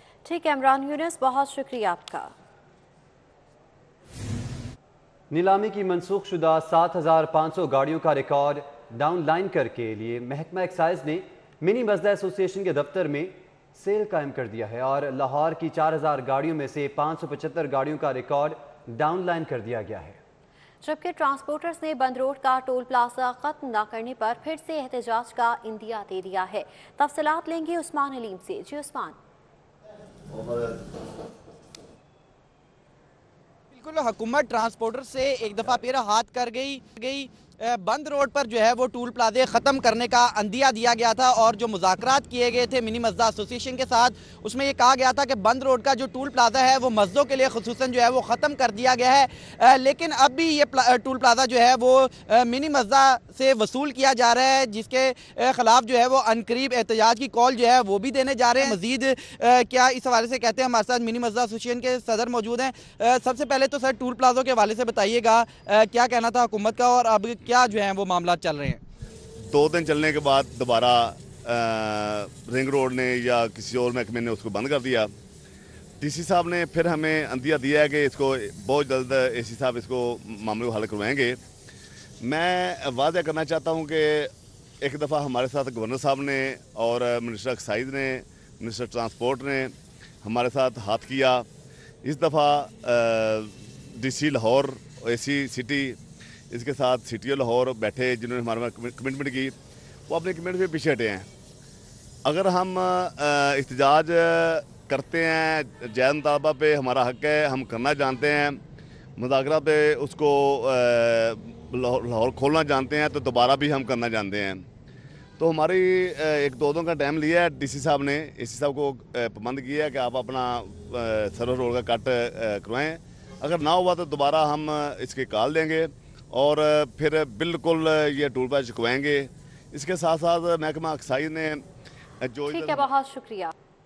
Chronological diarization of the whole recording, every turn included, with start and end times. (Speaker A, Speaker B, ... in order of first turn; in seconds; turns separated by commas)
Speaker A: 0.2-2.3, Speaker B: 5.3-20.2, Speaker A: 20.8-29.1, Speaker C: 30.3-30.8, Speaker D: 33.7-68.8, Speaker C: 69.5-75.1, Speaker C: 76.0-81.4, Speaker C: 82.2-91.5, Speaker C: 92.0-96.0, Speaker C: 96.5-99.5, Speaker C: 100.1-101.3, Speaker C: 102.2-108.6, Speaker C: 109.2-114.6, Speaker C: 115.4-131.6, Speaker C: 132.2-132.9, Speaker A: 132.5-133.5